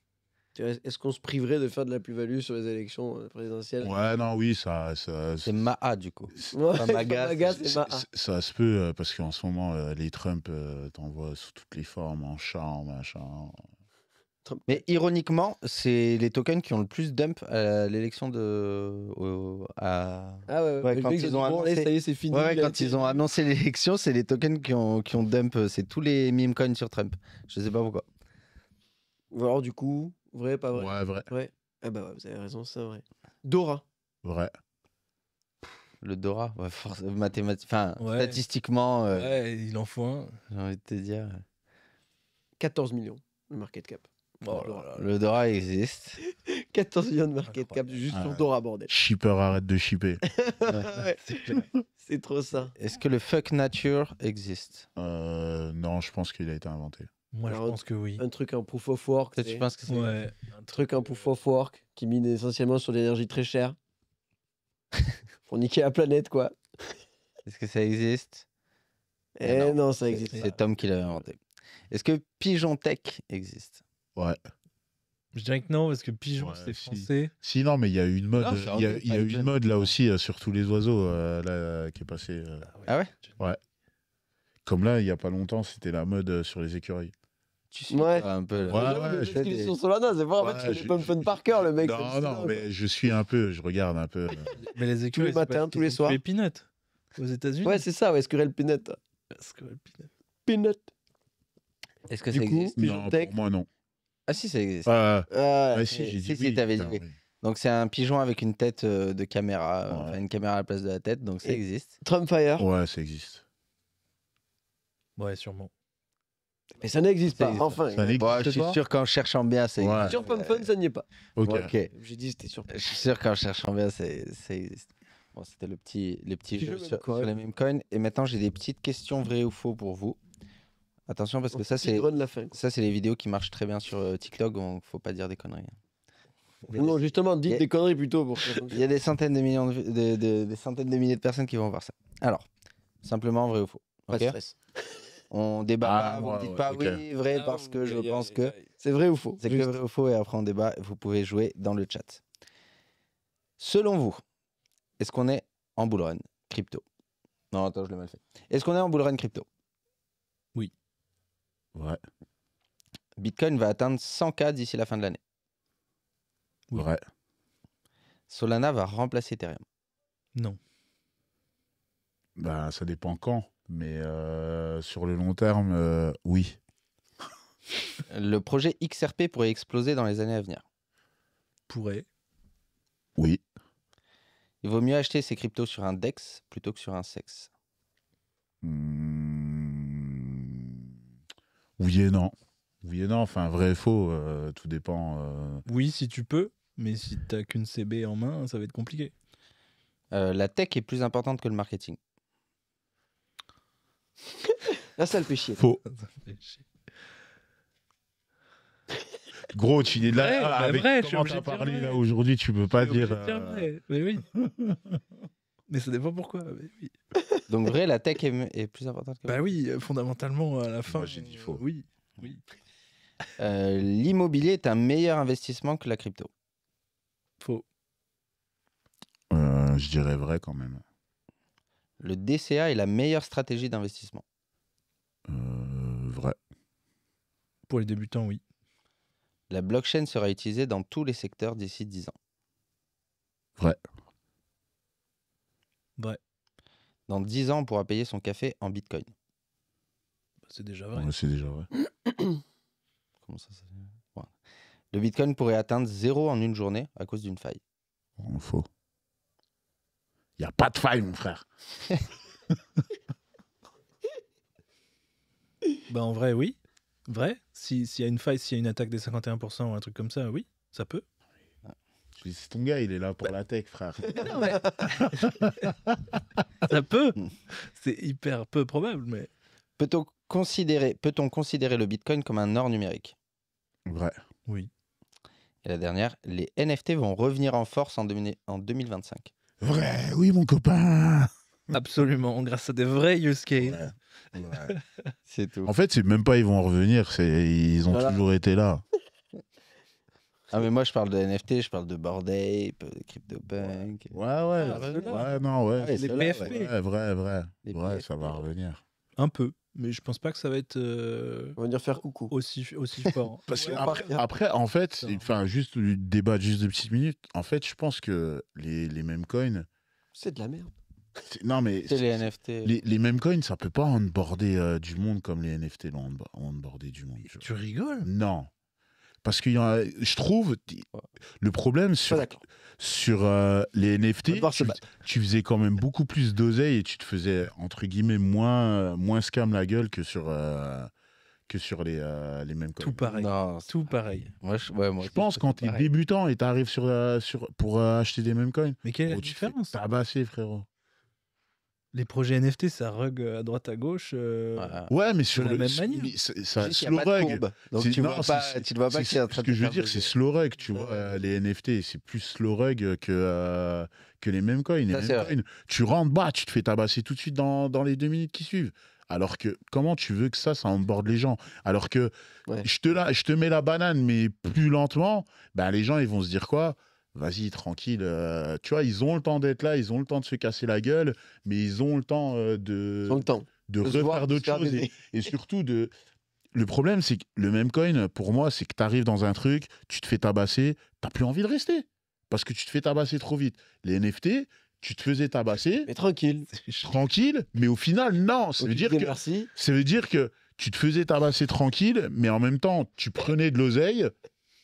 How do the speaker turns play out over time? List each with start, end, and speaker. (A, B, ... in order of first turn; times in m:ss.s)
0:00.6-0:03.9 A
0:03.8-0:05.5 B
0:05.4-0:07.7 C
0:06.5-0:08.0 A
0:07.6-0:13.6 B
0:14.4-0:14.8 A
0:14.7-0:28.0 C
0:20.5-0:23.2 A
0:29.3-0:33.8 A
0:30.7-0:31.3 B
0:34.2-0:34.5 B
0:36.0-0:39.3 C
0:38.0-0:38.4 D
0:39.1-0:40.4 D
0:40.5-0:41.4 C
0:42.6-0:44.9 A
0:44.4-0:45.0 D
0:44.9-0:46.2 C
0:46.4-0:48.9 A
0:47.5-0:48.0 D
0:48.1-0:50.2 B
0:50.3-0:51.2 A
0:50.9-0:51.6 D
0:52.0-0:52.7 A
0:52.8-0:54.8 C
0:55.0-0:57.1 B
0:57.3-0:58.2 D
0:57.5-0:59.7 A
0:59.3-1:00.2 C
0:59.9-1:01.3 D
1:00.7-1:03.8 A
1:05.5-1:06.9 A
1:07.4-1:08.4 C
1:09.4-1:10.6 A
1:09.4-1:11.4 C
1:11.9-1:13.8 C
1:15.3-1:17.3 D
1:16.4-1:22.7 B
1:18.4-1:19.9 C
1:22.7-1:23.4 D
1:24.6-1:27.1 B
1:27.7-1:29.7 C
1:27.9-1:32.6 A
1:28.7-1:29.4 B
1:30.4-1:31.2 B
1:31.8-1:34.5 B
1:34.6-1:37.8 D
1:35.1-1:36.2 A
1:37.6-1:39.0 A
1:39.3-1:40.1 D
1:40.4-1:40.9 A
1:42.1-1:42.8 C
1:42.3-1:43.3 A
1:42.8-1:43.7 B
1:44.3-1:44.9 C
1:44.8-1:47.1 B
1:45.3-1:46.1 A
1:46.0-1:51.9 C
1:49.9-1:50.2 B
1:51.4-1:52.6 A
1:52.6-1:53.4 B
1:55.2-1:55.7 D
1:56.8-1:58.4 A
1:57.3-2:00.6 C
1:57.9-1:58.8 B
1:59.8-2:00.2 B
2:00.0-2:01.0 A
2:01.4-2:01.7 B
2:01.4-2:01.9 C
2:01.9-2:02.7 A
2:02.7-2:10.2 C
2:06.5-2:07.3 A
2:11.1-2:15.7 C
2:11.5-2:12.5 A
2:16.7-2:18.8 A
2:18.5-2:22.4 C
2:23.0-2:24.4 C
2:24.1-2:25.0 A
2:25.3-2:28.5 C
2:25.8-2:27.0 B
2:27.3-2:28.6 D
2:28.8-2:29.4 A
2:29.4-2:32.2 C
2:33.6-2:34.2 C
2:35.0-2:36.8 C
2:37.5-2:39.5 C
2:41.7-2:42.0 B
2:43.2-2:45.2 C
2:46.7-2:47.0 B
2:48.3-2:49.6 C
2:52.4-2:56.6 B
2:58.1-3:00.6 C
3:01.7-3:02.0 D
3:03.2-3:03.4 B
3:04.6-3:07.5 C
3:08.6-3:10.9 B
3:11.8-3:15.6 B
3:15.7-3:19.1 D
3:20.1-3:22.0 C
3:24.9-3:25.6 A
3:25.6-3:25.8 B
3:25.9-3:26.6 D
3:29.5-3:33.7 B
3:30.1-3:32.0 D
3:32.8-3:34.3 D
3:34.3-3:35.0 B
3:35.7-3:36.9 D
3:37.5-3:39.5 C
3:39.3-3:42.4 D
3:40.9-3:41.6 B
3:43.4-3:46.3 C
3:49.3-3:50.8 B
3:52.0-3:54.2 C
3:55.3-3:56.4 B
3:57.7-3:58.4 D
3:59.5-4:02.1 C
4:07.1-4:09.1 C
4:10.5-4:11.1 D
4:10.9-4:11.7 B
4:13.2-4:14.3 C
4:14.9-4:17.6 C
4:18.2-4:18.7 B
4:20.4-4:21.4 B
4:25.9-4:31.0 D
4:32.2-4:36.2 B
4:34.1-4:35.0 A
4:34.2-4:35.3 D
4:36.6-4:39.3 D
4:39.8-4:43.1 C
4:43.9-4:44.2 B
4:45.6-4:49.3 C
4:49.6-4:51.3 B
4:51.7-4:53.8 D
4:53.6-4:54.7 B
4:54.5-4:54.8 D
4:55.3-4:55.7 C
4:55.6-4:58.8 B
4:57.9-4:58.2 A
5:00.5-5:04.1 C
5:04.1-5:08.8 B
5:04.6-5:05.3 D
5:04.7-5:05.2 C
5:05.8-5:06.5 C
5:06.0-5:06.7 D
5:07.6-5:08.0 C
5:09.2-5:11.6 D
5:11.6-5:12.3 A
5:12.3-5:14.0 D
5:13.5-5:19.6 B
5:13.5-5:14.2 A
5:15.0-5:15.3 D
5:20.2-5:20.7 A
5:21.2-5:27.4 B
5:21.9-5:22.7 C
5:27.3-5:28.1 D
5:28.0-5:28.5 B
5:29.2-5:30.8 B
5:31.4-5:40.9 B
5:32.1-5:32.4 A
5:34.3-5:34.8 A
5:41.5-5:43.2 B
5:42.8-5:44.3 D
5:43.1-5:45.5 C
5:45.0-5:50.6 B
5:48.8-5:49.7 D
5:51.9-5:54.8 D
5:54.6-5:54.9 C
5:54.9-6:12.1 B
5:55.3-5:56.1 D
5:56.6-6:00.1 C
6:04.9-6:05.3 C
6:12.6-6:25.9 B
6:23.1-6:25.0 A
6:26.5-6:35.9 B
6:35.9-6:36.5 A
6:36.5-6:36.9 D
6:36.8-6:44.1 B
6:38.6-6:39.5 A